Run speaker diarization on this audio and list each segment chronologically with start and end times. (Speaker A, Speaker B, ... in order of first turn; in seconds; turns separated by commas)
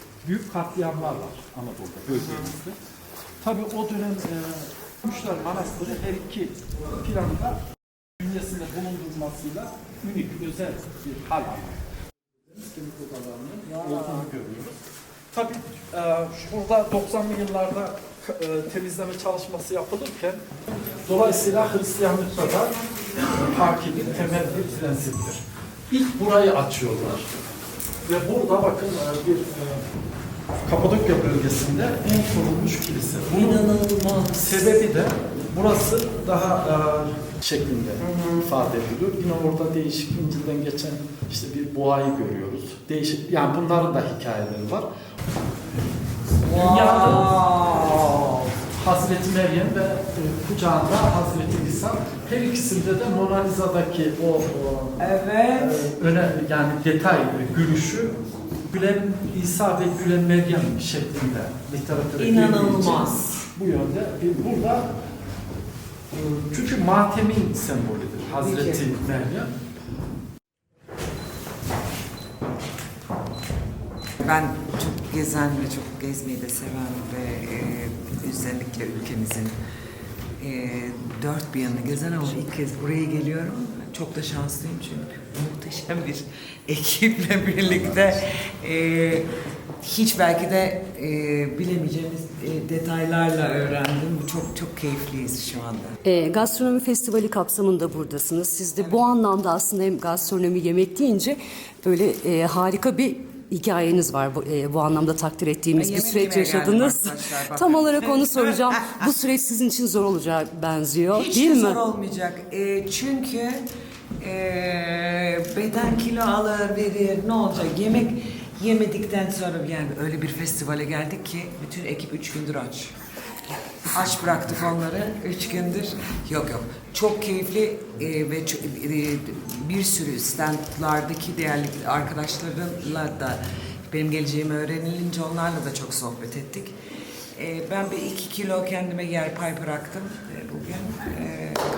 Speaker A: 0.2-2.8, Speaker A: 3.4-7.6, Speaker A: 8.2-11.8, Speaker A: 12.5-14.8, Speaker A: 15.3-20.5, Speaker A: 21.1-27.3, Speaker A: 28.1-29.9, Speaker A: 30.6-44.9, Speaker B: 33.5-34.1, Speaker B: 38.0-38.5, Speaker B: 46.5-48.1, Speaker A: 46.5-58.2, Speaker B: 55.0-55.8, Speaker A: 58.7-64.9, Speaker B: 62.2-63.4, Speaker A: 66.1-69.5, Speaker B: 68.4-68.9, Speaker B: 74.2-79.6, Speaker B: 80.4-89.3, Speaker B: 89.8-96.0, Speaker C: 96.0-111.8, Speaker B: 105.8-108.7, Speaker B: 111.1-113.6, Speaker B: 114.2-122.9, Speaker B: 123.9-136.8, Speaker B: 137.4-141.6